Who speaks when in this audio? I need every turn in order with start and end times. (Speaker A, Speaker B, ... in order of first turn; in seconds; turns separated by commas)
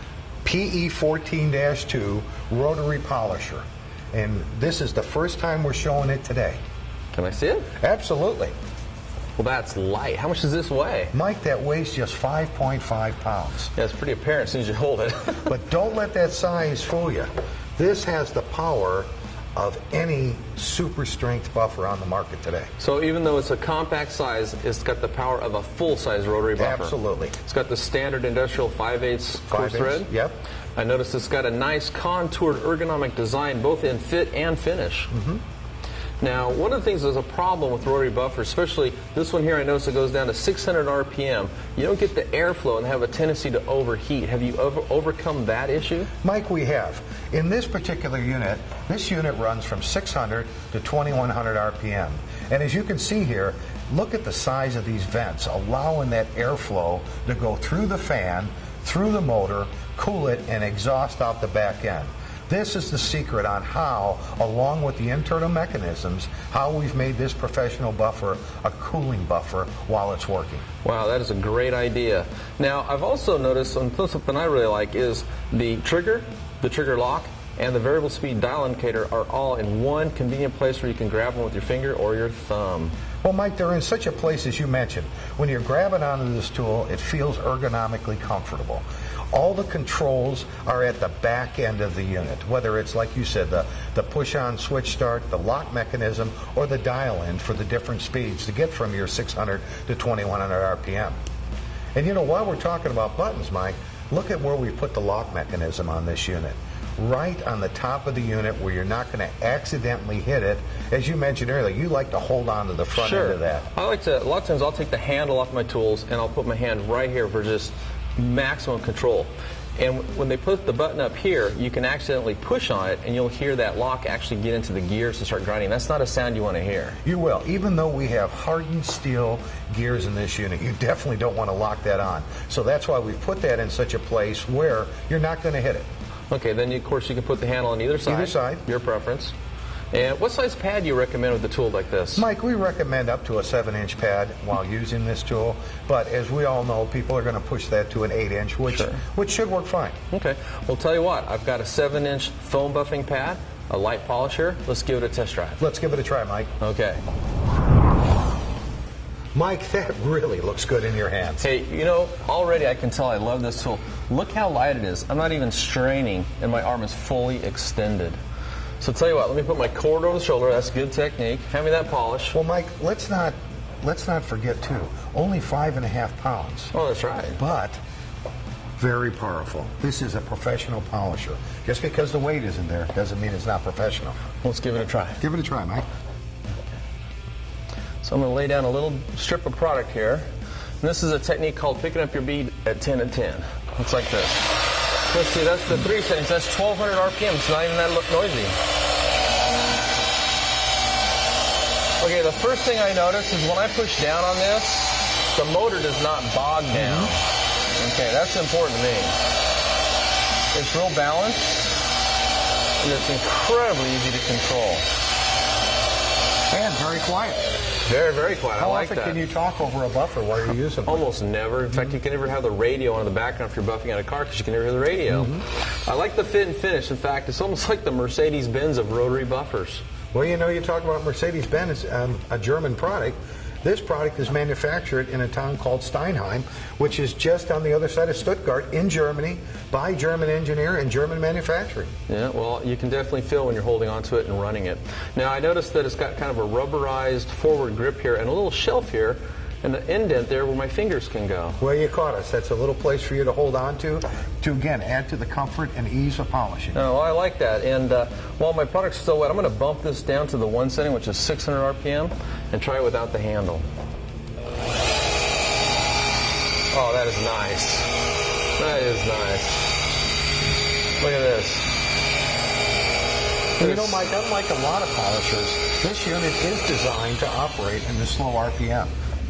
Speaker A: 0.4-6.6, Speaker B: 7.1-7.7, Speaker A: 7.8-8.5, Speaker B: 9.4-11.1, Speaker A: 11.1-13.7, Speaker B: 13.7-15.5, Speaker A: 15.5-22.7, Speaker B: 22.8-30.1, Speaker A: 26.6-27.4, Speaker A: 29.5-30.4, Speaker B: 30.8-35.1, Speaker A: 35.1-35.4, Speaker B: 36.2-46.1, Speaker A: 46.2-70.6, Speaker B: 70.8-82.9, Speaker A: 83.2-101.2, Speaker A: 101.9-113.7, Speaker B: 112.9-127.0, Speaker A: 127.0-135.9, Speaker B: 136.3-139.3, Speaker A: 138.1-138.6, Speaker B: 139.9-142.2, Speaker A: 142.2-149.9, Speaker B: 148.7-149.0, Speaker B: 150.1-155.6, Speaker A: 155.6-156.5, Speaker B: 156.6-157.0, Speaker A: 159.3-161.4, Speaker B: 161.4-168.2, Speaker B: 168.8-172.3, Speaker A: 172.3-176.7, Speaker B: 176.7-177.4, Speaker A: 177.4-177.8, Speaker A: 178.8-184.2, Speaker B: 184.4-185.2, Speaker A: 185.2-185.8, Speaker B: 188.0-190.3, Speaker B: 190.8-194.5, Speaker B: 195.1-198.6, Speaker B: 202.0-207.2, Speaker A: 206.7-207.1, Speaker B: 207.8-209.2, Speaker B: 210.5-211.6, Speaker B: 212.8-214.8, Speaker A: 216.5-217.5, Speaker B: 217.8-219.2, Speaker A: 218.6-221.1, Speaker B: 220.8-229.8, Speaker A: 225.1-225.4, Speaker A: 230.1-241.9, Speaker B: 242.1-251.6, Speaker A: 251.6-256.8, Speaker B: 256.7-263.6, Speaker B: 266.7-267.9, Speaker B: 268.6-269.6, Speaker B: 271.0-271.7, Speaker A: 273.6-278.9, Speaker B: 273.6-274.0